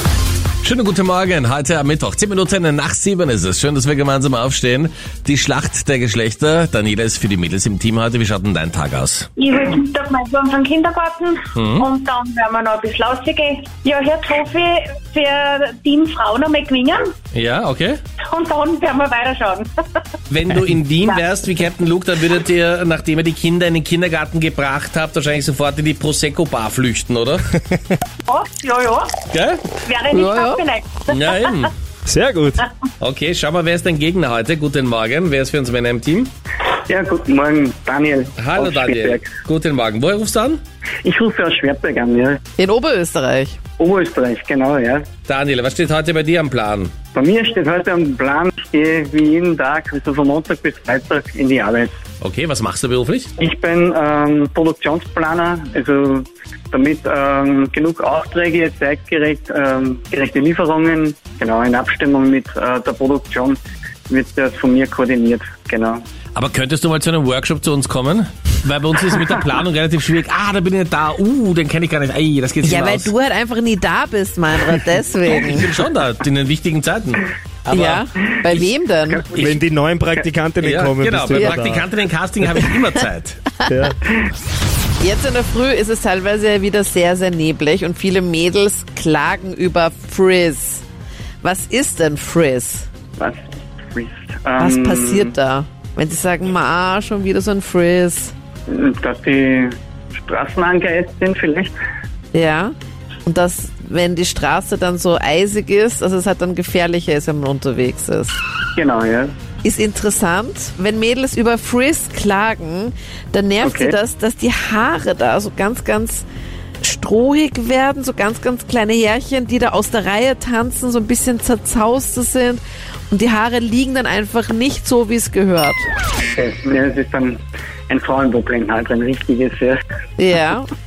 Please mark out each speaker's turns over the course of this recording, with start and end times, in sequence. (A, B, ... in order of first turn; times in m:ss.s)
0:00.6-0:09.3 A
0:09.4-0:17.1 B
0:11.5-0:11.9 A
0:17.3-0:18.0 A
0:18.3-0:19.7 B
0:20.3-0:27.5 A
0:28.3-0:29.1 B
0:29.3-0:29.6 A
0:29.8-0:31.7 B
0:30.1-0:30.6 C
0:31.1-0:31.7 A
0:32.0-0:32.6 D
0:33.0-0:36.3 A
0:36.9-0:39.3 E
0:38.4-0:40.6 A
0:41.0-0:42.4 E
0:42.6-0:43.6 C
0:43.8-0:45.0 E
0:45.3-0:46.9 A
0:47.1-0:51.9 E
0:52.2-0:53.3 A
0:53.4-1:03.6 E
1:04.1-1:06.0 E
1:06.3-1:13.1 A
1:12.6-1:15.7 C
1:15.2-1:18.6 A
1:17.7-1:19.2 C
1:19.1-1:19.5 E
1:19.3-1:21.8 D
1:20.6-1:23.4 A
1:23.7-1:24.0 D
1:25.0-1:30.8 C
1:31.4-1:32.9 C
1:33.2-1:35.3 E
1:34.6-1:38.3 C
1:38.7-1:41.7 E
1:42.3-1:42.7 C
1:43.2-1:48.4 C
1:48.8-1:49.3 E
1:49.6-1:56.3 C
1:53.6-1:53.9 E
1:56.8-2:05.9 C
2:06.3-2:09.8 E
2:10.2-2:10.7 C